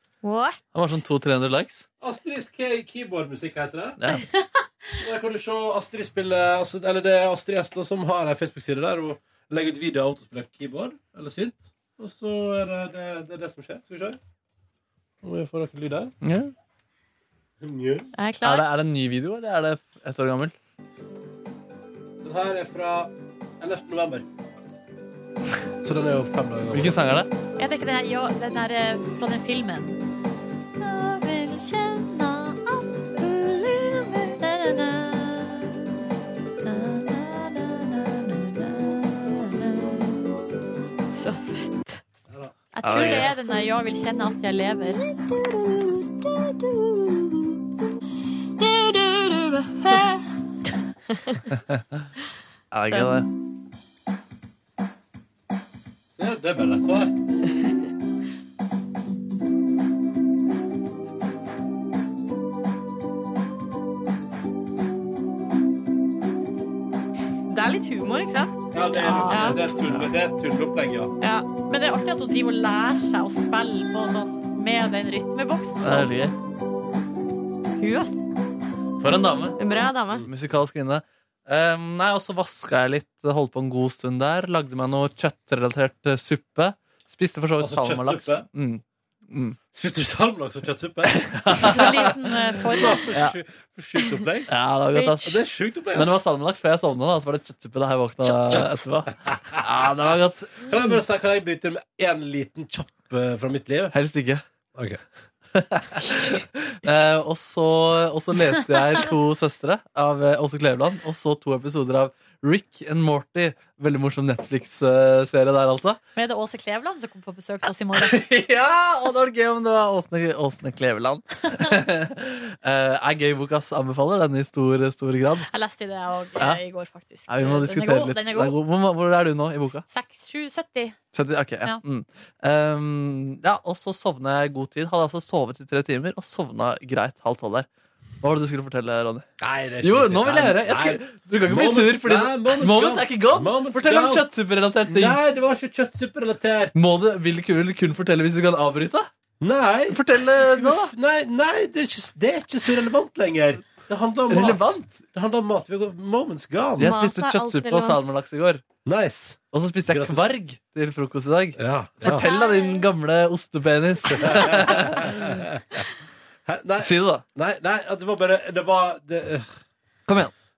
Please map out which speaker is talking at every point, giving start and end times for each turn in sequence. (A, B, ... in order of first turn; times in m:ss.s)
0:00.2-0:00.6 A
0:00.7-0:01.8 B
0:02.0-0:04.0 C
0:04.0-0:04.3 B
0:04.3-0:04.7 D
0:05.0-0:14.2 C
0:15.2-0:16.2 C
0:16.2-0:16.5 B
0:17.6-0:18.1 C
0:18.2-0:18.7 D
0:18.4-0:20.5 B
0:22.2-0:24.3 C
0:25.8-0:27.0 C
0:26.7-0:27.3 B
0:27.6-0:30.0 D
0:30.8-0:33.2 D
0:33.2-0:34.4 A
0:34.4-0:35.8 D
0:36.6-0:40.4 D
0:41.1-0:42.0 A
0:42.3-0:43.3 C
0:42.8-0:45.0 D
0:42.8-0:43.3 B
0:49.8-0:50.1 D
0:51.1-0:51.4 A
0:52.7-0:53.3 B
0:52.9-0:53.2 A
0:56.2-0:57.2 C
1:07.5-1:08.6 A
1:08.7-1:11.1 C
1:08.9-1:09.7 D
1:09.2-1:09.6 A
1:11.2-1:11.5 A
1:11.7-1:16.1 D
1:15.8-1:16.4 B
1:17.8-1:18.2 A
1:19.0-1:19.6 B
1:19.6-1:20.2 A
1:20.2-1:29.6 B
1:27.6-1:28.4 C
1:29.7-1:31.9 C
1:31.1-1:32.2 B
1:31.6-1:33.0 D
1:32.6-1:36.2 C
1:33.1-1:33.4 B
1:34.5-1:40.7 B
1:38.5-1:38.8 C
1:39.3-1:39.6 C
1:40.6-1:43.9 C
1:43.9-1:44.4 B
1:44.8-1:45.0 C
1:45.5-1:56.0 B
1:56.2-1:58.2 D
1:58.0-2:05.5 B
2:05.5-2:08.6 D
2:07.3-2:09.8 B
2:09.9-2:11.0 D
2:11.1-2:17.7 B
2:18.2-2:19.2 B
2:19.4-2:24.3 C
2:19.8-2:25.2 B
2:24.9-2:26.8 C
2:26.8-2:29.1 B
2:29.4-2:36.9 C
2:29.9-2:30.9 B
2:34.3-2:35.0 B
2:36.8-2:38.0 A
2:36.8-2:38.6 B
2:38.9-2:40.2 C
2:39.5-2:45.1 B
2:41.6-2:42.3 C
2:42.1-2:42.8 A
2:42.2-2:42.8 D
2:44.2-2:45.8 C
2:46.5-2:49.5 C
2:46.8-2:47.2 B
2:50.1-2:50.3 B